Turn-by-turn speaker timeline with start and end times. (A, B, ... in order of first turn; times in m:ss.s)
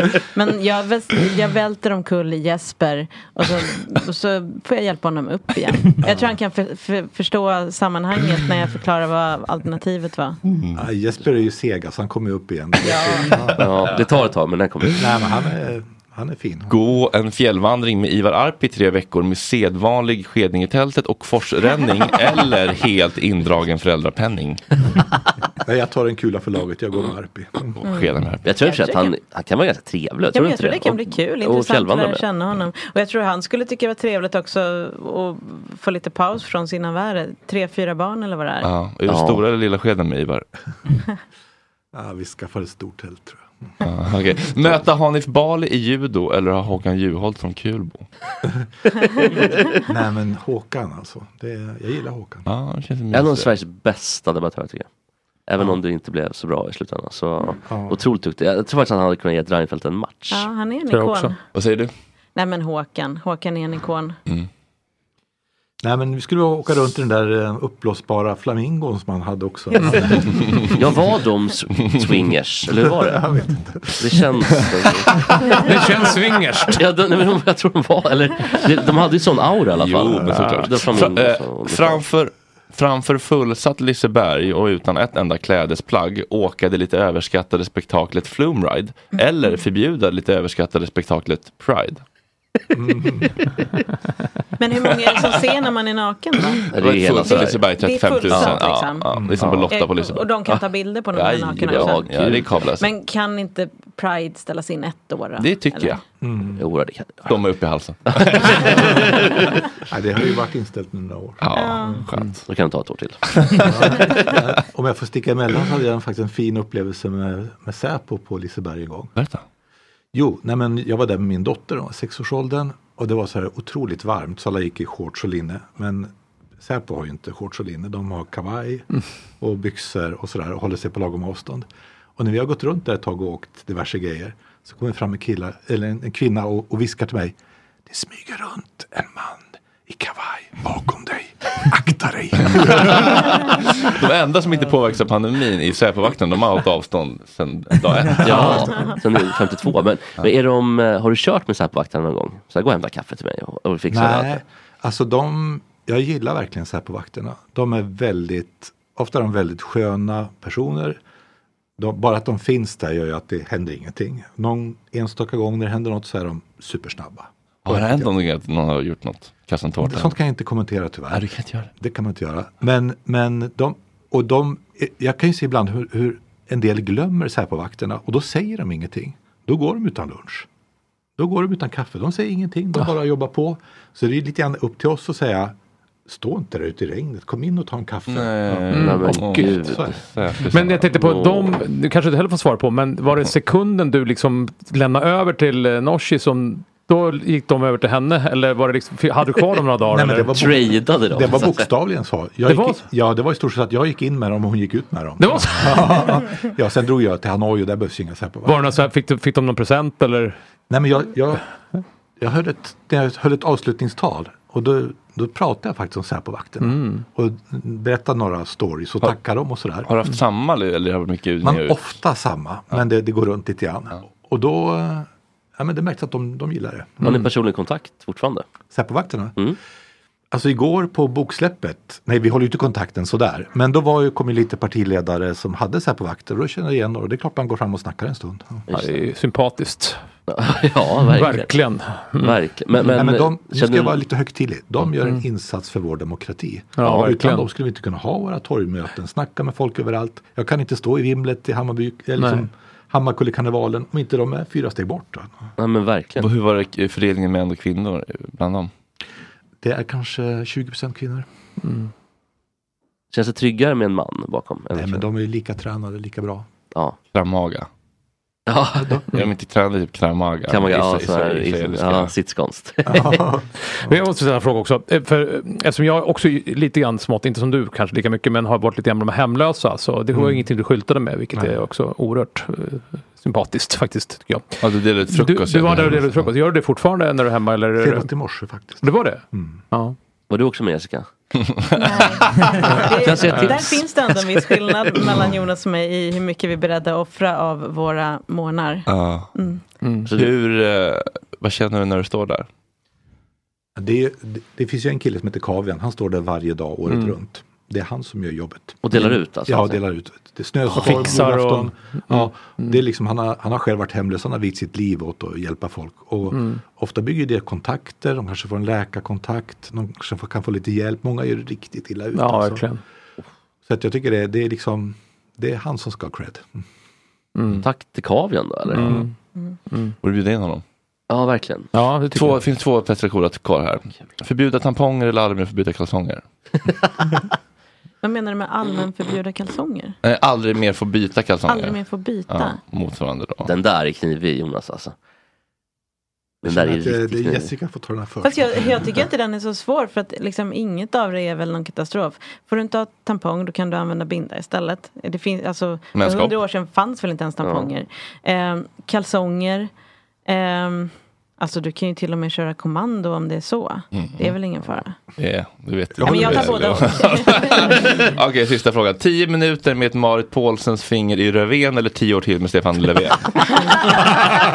0:00.4-0:10.4 A
0:06.0-0:06.3 B
0:10.5-0:10.8 C
0:10.8-0:13.6 B
0:12.8-0:13.4 A
0:13.6-0:15.0 D
0:15.0-0:16.8 B
0:16.7-0:24.8 C
0:25.6-0:27.8 B
0:27.8-0:28.5 C
0:28.4-0:32.2 D
0:28.6-0:29.1 A
0:30.3-0:38.7 A
0:38.6-0:40.4 C
0:39.1-0:39.4 D
0:41.9-0:43.5 B
0:43.8-0:48.1 C
0:49.8-0:52.5 B
0:52.5-0:53.5 C
0:53.1-0:54.9 D
0:55.5-1:00.5 D
0:57.6-0:58.0 B
1:00.3-1:01.4 A
1:00.9-1:01.3 E
1:01.5-1:01.9 C
1:02.4-1:04.2 A
1:05.8-1:10.2 B
1:09.8-1:10.2 A
1:10.7-1:13.2 D
1:12.8-1:14.0 B
1:14.0-1:15.2 D
1:15.5-1:16.8 E
1:16.7-1:22.0 D
1:19.7-1:32.0 C
1:20.3-1:20.7 E
1:32.7-1:33.3 B
1:34.6-1:36.7 A
1:36.7-1:37.6 D
1:36.8-1:40.3 C
1:37.2-1:46.0 A
1:38.3-1:38.6 D
1:41.1-1:42.9 C
1:41.7-1:42.5 D
1:45.4-1:46.0 C
1:46.2-1:46.6 B
1:46.6-1:47.3 D
1:47.2-1:48.8 C
1:48.1-1:49.4 D
1:49.9-1:51.4 B
1:51.4-1:52.4 C
1:51.5-1:52.0 A
1:52.5-1:53.6 D
1:53.6-1:59.1 B
1:59.2-1:59.4 C
2:00.1-2:08.9 B
2:09.4-2:17.4 B
2:17.9-2:23.8 B
2:22.4-2:28.8 C
2:28.2-2:34.4 D
2:28.2-2:28.6 B
2:33.9-2:41.0 B
2:41.8-2:48.1 B
2:47.7-2:50.2 C
2:49.8-3:00.5 B
2:51.1-2:51.7 C
3:01.2-3:08.8 B
3:08.1-3:10.8 C
3:08.7-3:09.1 E
3:08.7-3:10.0 D
3:09.5-3:10.0 B
3:10.5-3:20.4 E
3:10.9-3:11.5 D
3:19.9-3:28.7 B
3:20.3-3:21.7 D
3:22.4-3:22.8 E
3:25.2-3:26.2 E
3:28.4-3:30.4 E
3:30.7-3:31.5 B
3:32.2-3:39.9 B
3:36.6-3:37.0 E
3:39.8-3:41.9 C
3:41.4-3:47.2 B
3:47.0-3:48.5 D
3:48.7-3:49.4 B
3:50.3-3:58.7 B
3:58.7-3:59.0 D
3:58.7-4:00.0 E
4:00.3-4:01.5 D
4:01.0-4:02.4 E
4:02.2-4:04.0 D
4:02.9-4:15.4 B
4:06.8-4:07.5 E
4:12.2-4:12.4 E
4:15.6-4:16.3 D
4:16.2-4:18.7 C
4:19.6-4:21.3 B
4:21.6-4:21.9 E
4:23.1-4:25.0 D
4:24.7-4:26.5 B
4:27.1-4:27.7 C
4:28.5-4:29.0 D
4:29.1-4:32.1 C
4:30.5-4:33.2 D
4:32.9-4:34.0 B
4:33.7-4:48.1 E
4:40.1-4:40.4 B
4:44.6-4:46.3 C
4:47.8-4:49.6 B
4:48.8-4:50.0 E
4:50.3-4:51.1 D
4:51.6-4:52.1 C
4:51.8-4:59.6 A
4:52.6-4:53.8 D
4:58.9-4:59.3 C
4:59.8-5:00.1 E
5:00.1-5:02.5 C
5:03.8-5:22.7 B
5:06.9-5:07.1 E
5:08.8-5:09.8 D
5:10.7-5:12.8 E
5:16.3-5:16.6 E
5:22.1-5:22.8 E
5:23.7-5:26.6 B
5:27.4-5:27.6 E
5:27.6-5:29.0 D
5:28.7-5:29.2 E
5:29.7-5:30.0 E
5:30.0-5:30.6 C
5:31.1-5:31.7 D
5:31.7-5:32.4 E
5:32.1-5:36.2 C
5:38.0-5:40.0 A
5:40.0-5:43.5 C
5:41.5-5:42.6 A
5:43.4-5:45.0 D
5:46.4-5:49.0 B
5:46.4-5:47.5 D
5:48.2-5:59.7 A
5:56.0-5:56.4 C
5:57.4-5:57.7 D
6:00.3-6:05.0 A
6:03.9-6:04.3 C
6:05.2-6:13.8 C
6:06.0-6:07.0 B
6:06.0-6:07.8 A
6:13.6-6:13.9 A